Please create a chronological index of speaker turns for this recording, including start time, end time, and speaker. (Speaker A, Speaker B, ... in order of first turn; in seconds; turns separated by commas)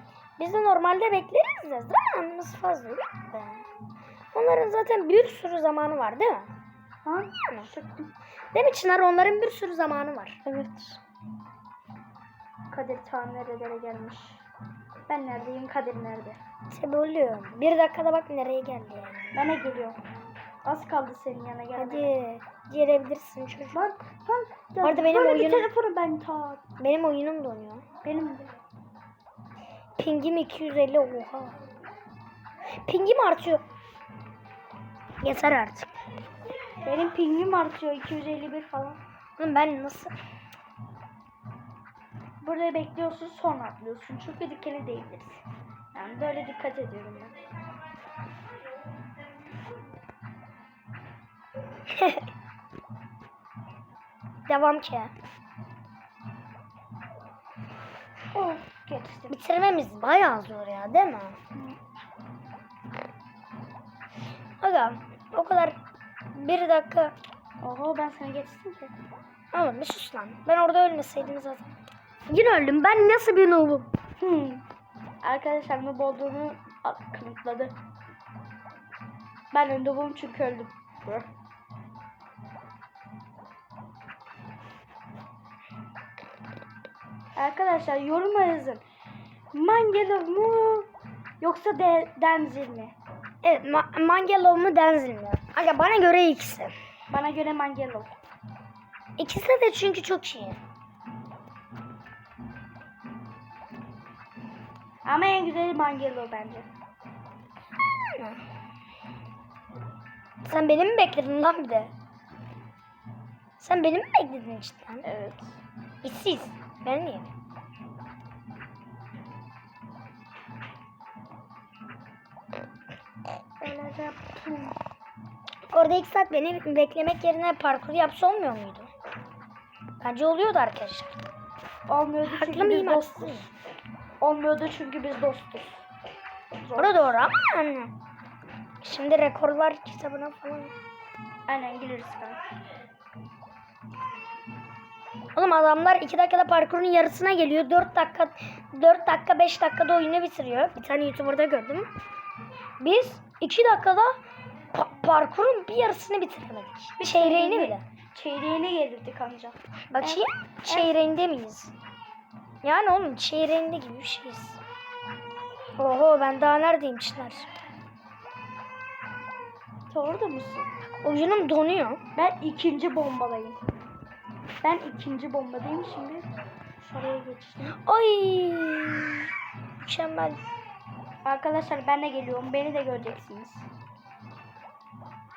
Speaker A: 0.4-3.6, Speaker A: 4.3-6.5, Speaker B: 7.0-8.1, Speaker A: 8.5-10.4, Speaker B: 10.4-11.0, Speaker B: 12.7-14.4, Speaker B: 15.1-16.4, Speaker A: 16.7-19.4, Speaker B: 19.3-20.0, Speaker B: 20.6-22.1, Speaker A: 21.8-23.8, Speaker B: 23.7-26.6, Speaker A: 24.8-25.7, Speaker A: 26.8-27.8, Speaker B: 28.0-28.5, Speaker A: 30.0-31.6, Speaker A: 32.9-33.6, Speaker A: 35.2-35.9, Speaker B: 36.8-39.0, Speaker A: 39.4-40.1, Speaker B: 42.4-45.4, Speaker B: 45.9-47.4, Speaker A: 51.9-52.2, Speaker A: 54.5-55.1, Speaker B: 58.3-59.4, Speaker A: 59.3-61.4, Speaker A: 64.6-65.8, Speaker A: 66.3-67.1, Speaker B: 67.6-68.9, Speaker A: 69.5-71.8, Speaker A: 72.3-73.9, Speaker B: 74.2-74.6, Speaker B: 75.2-77.8, Speaker B: 79.5-81.3, Speaker B: 87.4-88.8, Speaker B: 89.5-90.9, Speaker B: 91.4-93.0, Speaker A: 93.4-96.7, Speaker B: 97.1-98.1, Speaker A: 99.2-100.6, Speaker B: 105.0-106.7, Speaker A: 110.5-111.9, Speaker A: 113.6-115.0, Speaker B: 115.0-115.6, Speaker A: 116.0-117.3, Speaker B: 123.6-124.8, Speaker A: 125.7-128.9, Speaker A: 130.0-131.2, Speaker B: 131.9-133.5, Speaker A: 132.2-133.5, Speaker B: 134.2-135.8, Speaker B: 136.6-137.2, Speaker A: 136.8-137.9, Speaker A: 138.8-140.7, Speaker B: 141.5-142.4, Speaker A: 145.3-151.9, Speaker A: 152.8-154.2, Speaker A: 154.7-157.8, Speaker B: 157.0-160.9, Speaker A: 159.9-161.7, Speaker A: 162.6-164.6, Speaker A: 165.8-167.5, Speaker B: 169.9-170.7, Speaker A: 171.0-172.0, Speaker B: 172.2-173.6, Speaker B: 174.6-176.3, Speaker B: 176.8-177.8, Speaker A: 177.7-179.3, Speaker A: 179.8-180.4, Speaker B: 181.2-183.7